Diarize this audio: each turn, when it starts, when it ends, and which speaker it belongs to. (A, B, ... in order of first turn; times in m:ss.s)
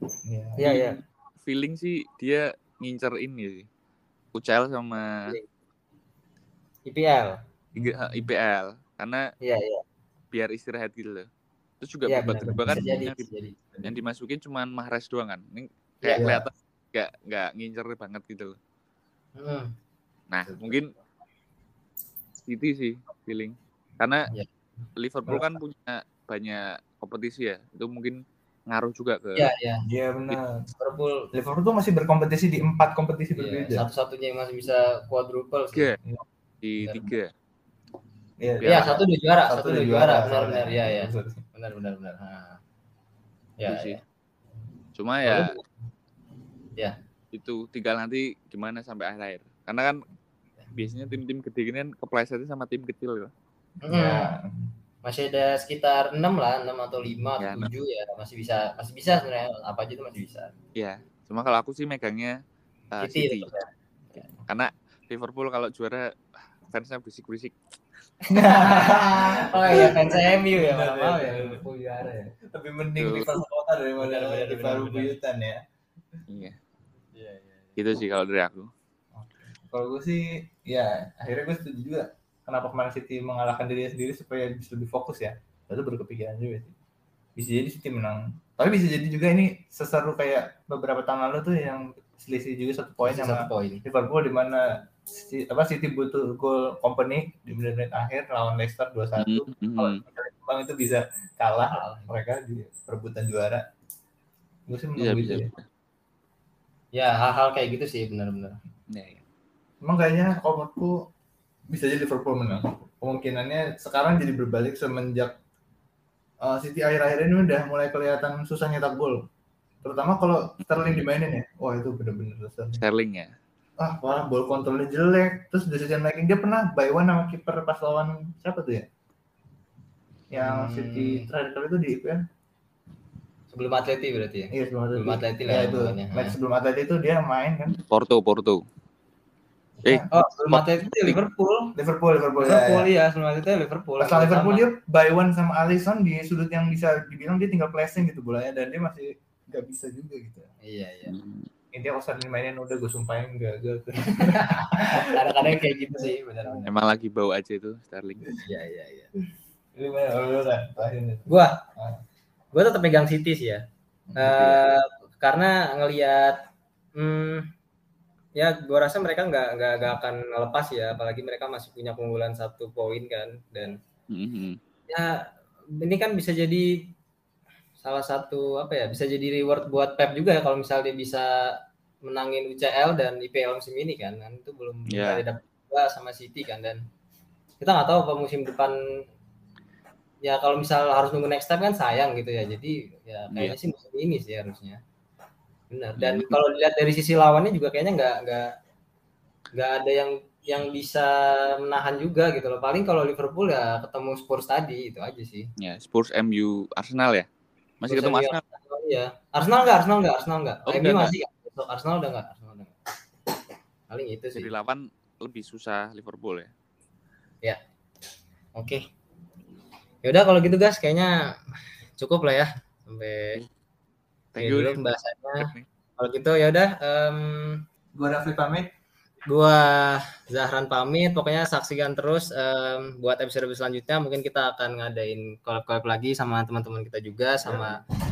0:00.2-0:00.8 A
0:00.6-0:01.0 B
0:00.6-0:03.7 C
0:04.3-0:05.3 C
0:06.9-0:07.4 B
0:07.8-0:08.3 A
0:07.8-0:09.3 C
0:09.4-0:09.8 B
0:10.3-0:11.3 C
0:11.8-0:13.2 C
0:12.1-0:13.8 B
0:12.7-0:13.1 A
0:13.8-0:18.6 C
0:16.1-0:16.5 A
0:19.4-0:19.7 B
0:20.3-0:20.9 C
0:22.5-0:24.3 C
0:25.0-0:29.5 C
0:29.4-0:29.8 B
0:29.9-0:30.7 A
0:30.8-0:31.3 B
0:31.3-0:33.8 A
0:33.4-0:35.9 B
0:36.6-0:37.3 C
0:38.4-0:41.4 A
0:38.6-0:39.0 C
0:38.6-0:42.6 B
0:43.6-0:44.0 B
0:43.7-0:44.0 C
0:45.0-0:45.5 C
0:45.2-0:45.6 B
0:47.3-0:50.0 C
0:50.7-0:53.3 C
0:53.8-0:54.3 B
0:53.9-0:54.7 A
0:55.0-1:00.5 B
0:57.4-0:57.7 C
1:00.8-1:02.4 C
1:02.9-1:03.5 C
1:03.0-1:03.7 B
1:04.4-1:06.1 C
1:06.7-1:07.6 C
1:08.3-1:11.8 B
1:08.3-1:15.6 A
1:13.0-1:13.3 C
1:14.0-1:15.2 B
1:16.3-1:16.6 C
1:17.2-1:17.8 B
1:17.8-1:18.7 C
1:19.1-1:26.7 A
1:27.4-1:43.6 A
1:33.0-1:33.8 B
1:39.2-1:40.0 C
1:41.7-1:42.1 B
1:44.7-1:45.5 A
1:45.0-1:45.6 C
1:46.9-1:48.6 B
1:48.9-1:49.2 C
1:49.8-1:51.1 A
1:51.7-1:55.3 A
1:56.4-1:59.2 A
1:59.8-2:02.8 A
2:02.8-2:03.3 C
2:03.8-2:08.9 A
2:10.3-2:12.2 A
2:10.3-2:11.3 B
2:13.5-2:16.4 B
2:14.5-2:17.8 A
2:17.9-2:18.6 C
2:19.8-2:20.1 A
2:19.9-2:21.2 C
2:20.1-2:21.8 B
2:21.8-2:22.9 A
2:22.4-2:24.7 B
2:24.0-2:30.5 A
2:30.6-2:31.2 B
2:31.1-2:31.5 C
2:31.7-2:35.6 A
2:34.2-2:36.7 B
2:36.6-2:38.3 C
2:38.4-2:39.1 B
2:39.8-2:42.0 A
2:41.3-2:41.6 B
2:42.5-2:43.6 B
2:44.1-2:44.4 A
2:44.2-2:46.4 B
2:44.2-2:44.6 C
2:47.0-2:47.5 B
2:48.4-2:53.8 B
2:54.1-2:54.6 C
2:54.9-2:55.3 B
2:55.8-2:56.8 B
2:57.8-3:01.3 B
3:02.1-3:06.8 B
3:04.9-3:05.2 C
3:07.6-3:08.8 B
3:10.2-3:14.8 B
3:15.7-3:18.5 B
3:16.0-3:16.4 C
3:19.5-3:25.5 B
3:25.6-3:27.3 C
3:27.8-3:28.4 C
3:27.9-3:32.8 B
3:30.7-3:31.1 C
3:33.9-3:34.5 B
3:34.4-3:36.5 C
3:38.6-3:38.9 B
3:40.0-3:41.1 B
3:42.0-3:43.4 B
3:44.4-3:44.8 C
3:44.4-3:47.7 B
3:45.4-3:45.7 C
3:48.0-3:48.7 A
3:49.3-3:57.8 B
3:57.4-3:57.8 A